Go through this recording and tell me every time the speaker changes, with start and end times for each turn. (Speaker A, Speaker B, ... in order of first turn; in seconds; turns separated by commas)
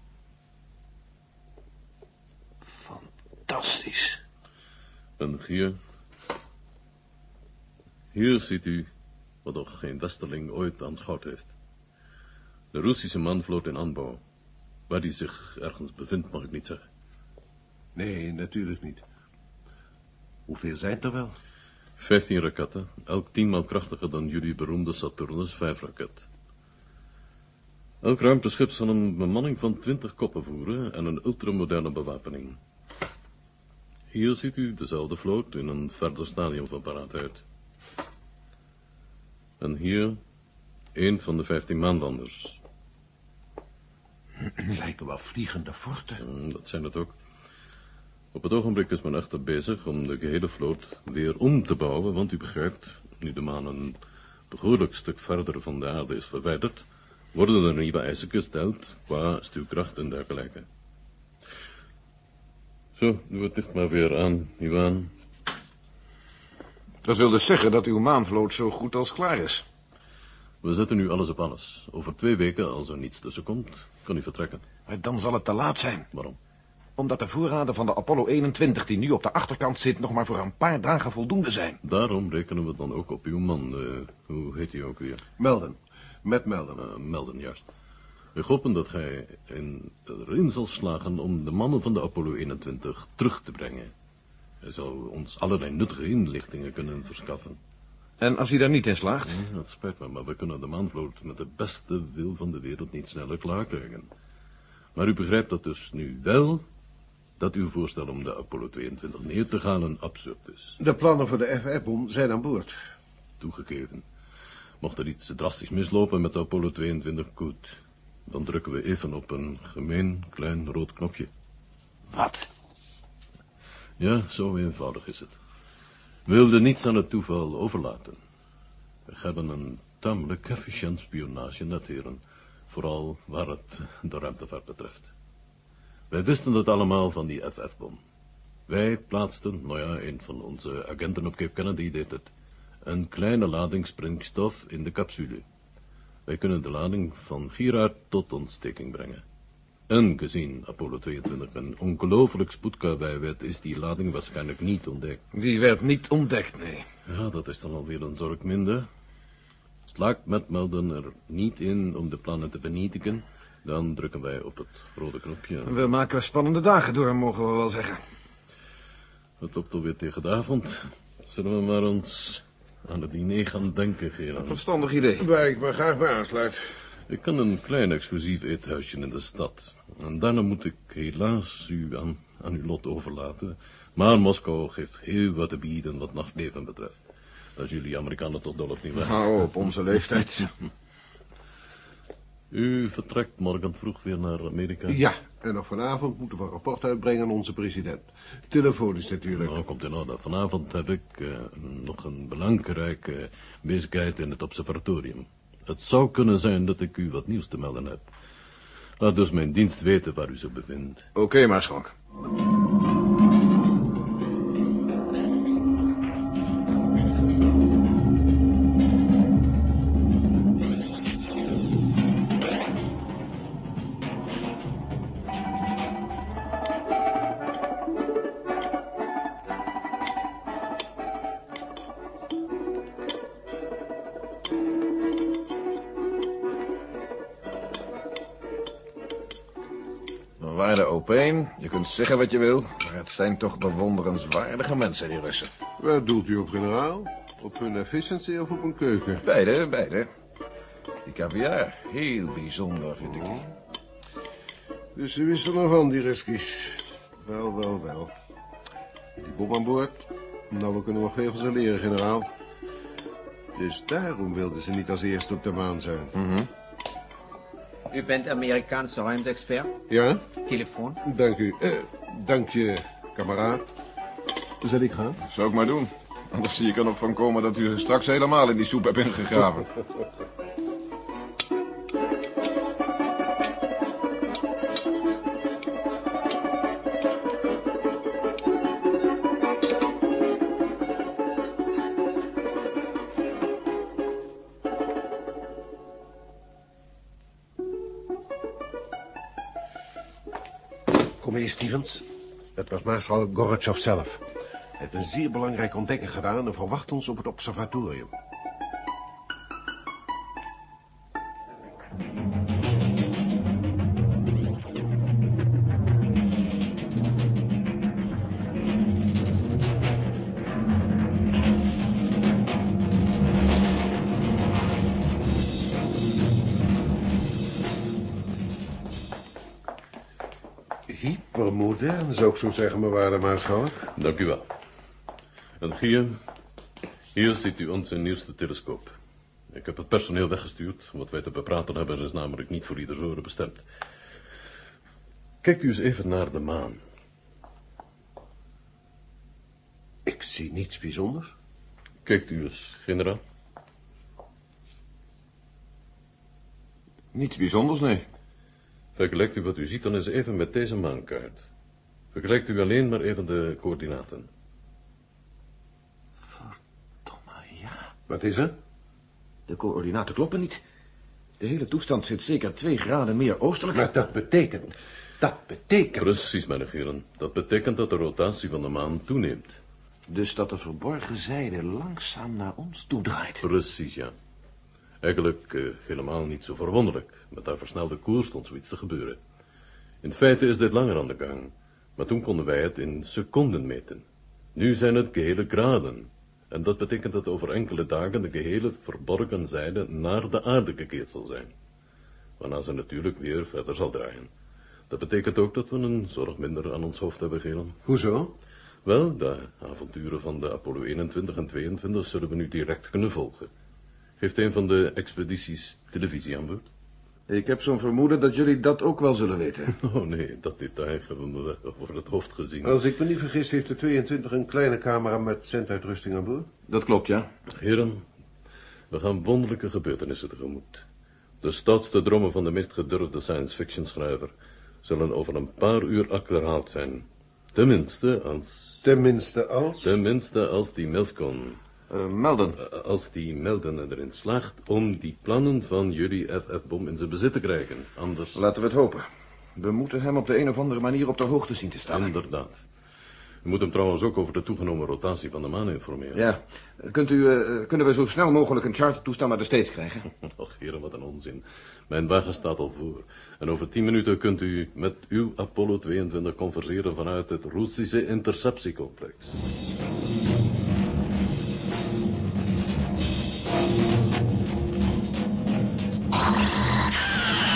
Speaker A: 2.7-4.2, Speaker B: 5.2-5.8, Speaker B: 8.1-8.9, Speaker B: 9.4-11.5, Speaker B: 12.7-14.2, Speaker B: 14.9-16.8, Speaker C: 18.0-19.0, Speaker C: 20.5-21.4, Speaker B: 22.0-26.3, Speaker B: 28.0-32.6, Speaker B: 34.1-37.4, Speaker B: 39.6-40.2, Speaker B: 41.0-42.6, Speaker C: 44.6-46.2, Speaker B: 46.2-47.1, Speaker B: 48.3-54.0, Speaker B: 54.5-60.7, Speaker B: 63.0-65.1, Speaker A: 67.0-69.6, Speaker B: 70.6-74.7, Speaker A: 74.9-76.1, Speaker A: 77.0-81.8, Speaker B: 81.8-85.2, Speaker C: 85.4-86.8, Speaker B: 86.8-87.6, Speaker B: 88.3-93.9, Speaker B: 94.6-97.6, Speaker A: 98.2-99.4, Speaker B: 99.3-104.1, Speaker B: 105.0-106.6, Speaker B: 107.4-110.8, Speaker C: 110.8-112.8, Speaker B: 113.4-114.0, Speaker B: 114.8-121.3, Speaker A: 122.1-122.5, Speaker B: 124.0-125.4, Speaker B: 126.3-128.2, Speaker B: 129.1-135.1, Speaker B: 136.1-138.0, Speaker B: 138.7-142.3, Speaker B: 142.8-145.4, Speaker B: 146.3-149.2, Speaker B: 149.9-155.2, Speaker A: 155.3-156.9, Speaker B: 157.1-158.9, Speaker B: 159.9-165.8, Speaker A: 165.7-168.0, Speaker B: 169.4-174.6, Speaker A: 174.4-175.4, Speaker C: 175.2-176.6, Speaker B: 177.1-187.0, Speaker B: 187.6-189.3, Speaker A: 188.9-190.5, Speaker B: 192.5-195.0, Speaker C: 194.9-199.6, Speaker B: 199.3-208.1, Speaker B: 209.0-211.1, Speaker A: 211.2-211.9, Speaker A: 240.4-245.5, Speaker C: 245.8-249.2, Speaker A: 249.2-250.1, Speaker A: 251.1-253.5, Speaker C: 254.9-258.1, Speaker C: 259.2-262.3, Speaker C: 263.6-266.1, Speaker A: 266.1-266.5, Speaker D: 267.9-269.7, Speaker C: 269.9-270.3, Speaker D: 270.4-271.0, Speaker C: 271.0-273.7, Speaker C: 274.6-275.2, Speaker A: 275.3-279.7, Speaker C: 301.1-304.2, Speaker C: 304.8-308.1, Speaker C: 330.9-333.9, Speaker B: 334.0-334.5, Speaker B: 335.6-336.2, Speaker B: 337.1-338.9, Speaker B: 339.5-343.6, Speaker B: 345.4-346.8, Speaker C: 350.1-351.3, Speaker B: 352.1-353.2, Speaker A: 357.1-358.1, Speaker B: 359.0-361.4, Speaker B: 362.1-364.3, Speaker A: 366.3-367.9, Speaker C: 368.1-368.6, Speaker A: 369.5-370.6, Speaker A: 371.4-374.0, Speaker C: 373.7-376.1, Speaker B: 376.0-379.6, Speaker A: 380.1-383.4, Speaker B: 383.4-384.1, Speaker B: 385.0-389.2, Speaker B: 390.0-394.0, Speaker B: 394.6-401.5, Speaker B: 402.4-404.3, Speaker B: 404.9-407.8, Speaker C: 407.9-408.3, Speaker B: 408.9-413.5, Speaker B: 414.2-416.7, Speaker A: 417.3-419.7, Speaker B: 419.8-422.8, Speaker C: 422.6-426.5, Speaker A: 426.7-427.3, Speaker B: 427.5-428.0, Speaker B: 428.9-430.9, Speaker B: 431.4-438.8, Speaker C: 438.8-440.0, Speaker B: 439.8-441.6, Speaker A: 441.9-442.6, Speaker B: 442.6-448.4, Speaker A: 448.4-452.1, Speaker B: 451.9-452.6, Speaker B: 453.4-456.2, Speaker A: 456.1-460.1, Speaker B: 460.2-469.4